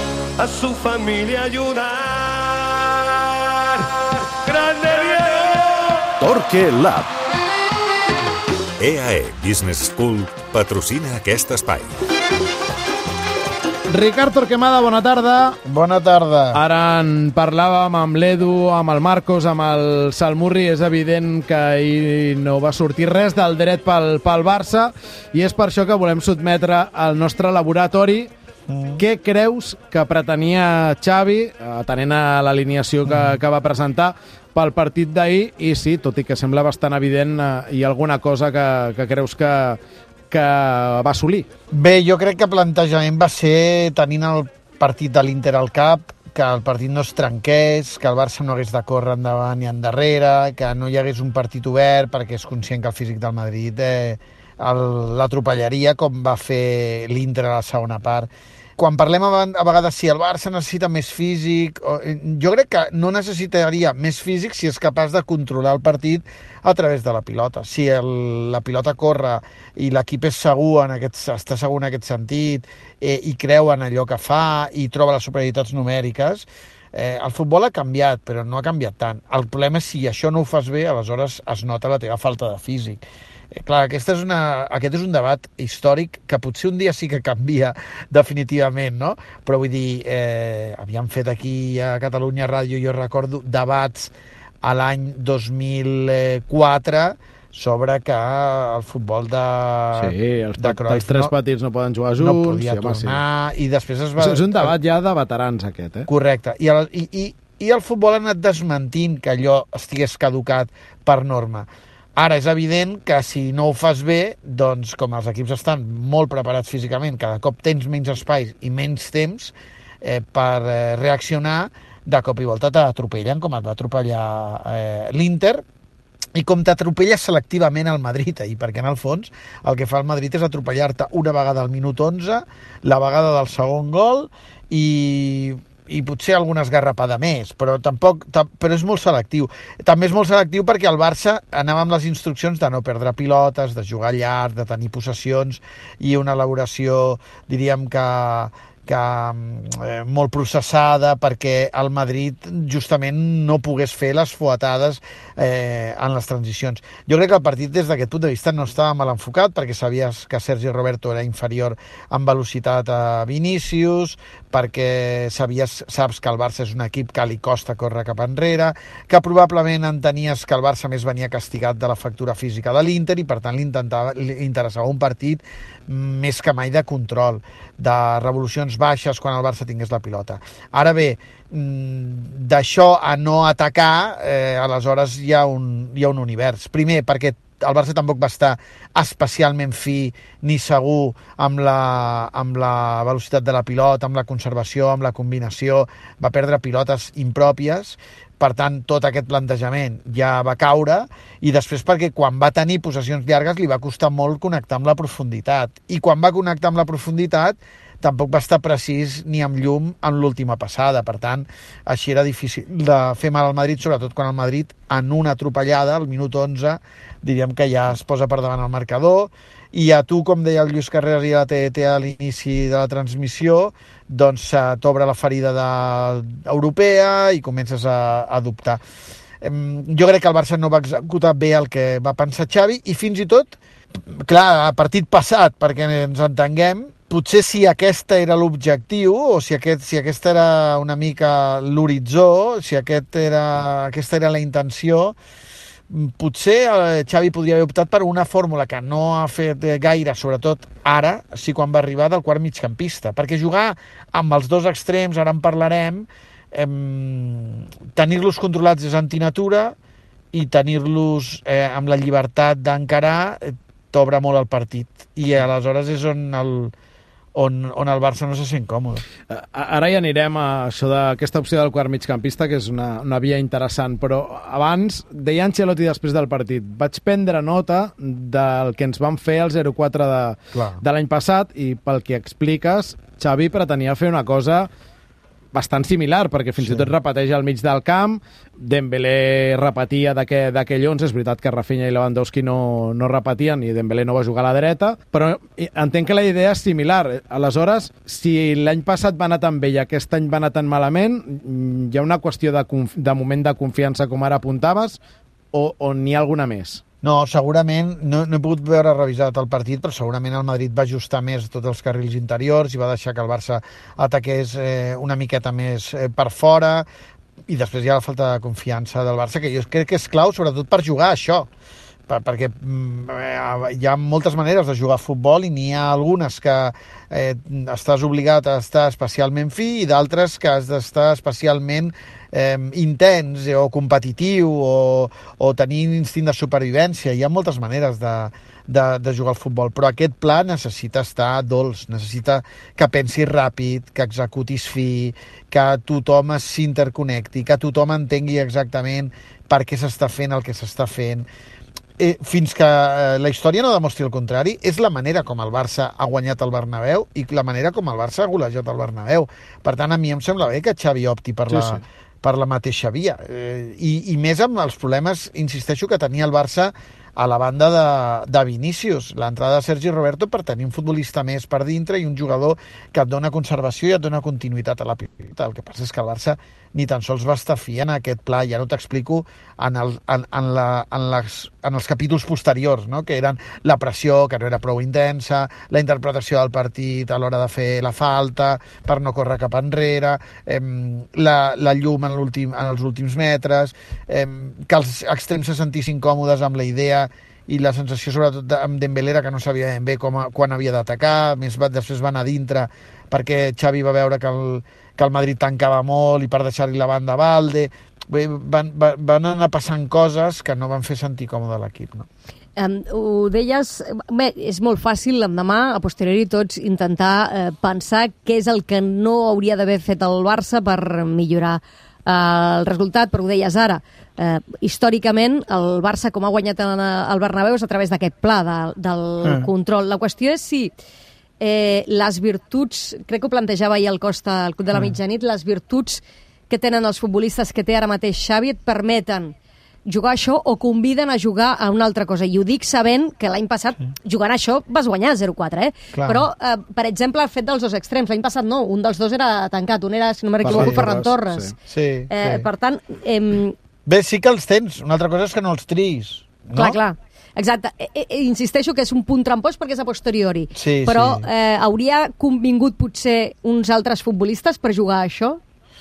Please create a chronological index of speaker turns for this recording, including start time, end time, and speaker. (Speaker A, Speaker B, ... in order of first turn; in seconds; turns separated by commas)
Speaker A: 0.4-6.6, Speaker B: 6.2-6.8, Speaker C: 8.8-11.9, Speaker B: 13.9-15.6, Speaker D: 15.6-16.6, Speaker B: 16.5-28.3, Speaker D: 28.7-29.0, Speaker B: 29.0-39.8, Speaker D: 33.0-33.4, Speaker B: 40.3-41.5, Speaker D: 41.7-94.1, Speaker D: 94.6-101.3, Speaker B: 100.0-103.2, Speaker D: 102.2-104.7, Speaker B: 104.2-106.1, Speaker D: 106.1-125.6, Speaker D: 126.3-228.8, Speaker D: 229.4-245.2, Speaker D: 245.9-259.7, Speaker D: 260.3-266.7, Speaker D: 267.3-269.0, Speaker B: 269.3-284.7, Speaker D: 280.5-280.8, Speaker B: 285.5-305.0, Speaker D: 286.6-286.9, Speaker B: 305.5-306.8, Speaker D: 307.0-316.9, Speaker D: 317.5-321.5, Speaker D: 322.1-351.3, Speaker D: 352.0-412.1, Speaker B: 361.5-361.8, Speaker E: 412.6-430.7, Speaker E: 431.4-439.3, Speaker E: 439.9-451.5, Speaker D: 445.9-446.2, Speaker B: 450.4-451.5, Speaker D: 450.5-450.8, Speaker D: 451.7-452.5, Speaker E: 452.1-453.6, Speaker D: 453.9-456.8, Speaker E: 456.5-465.4, Speaker D: 460.5-461.3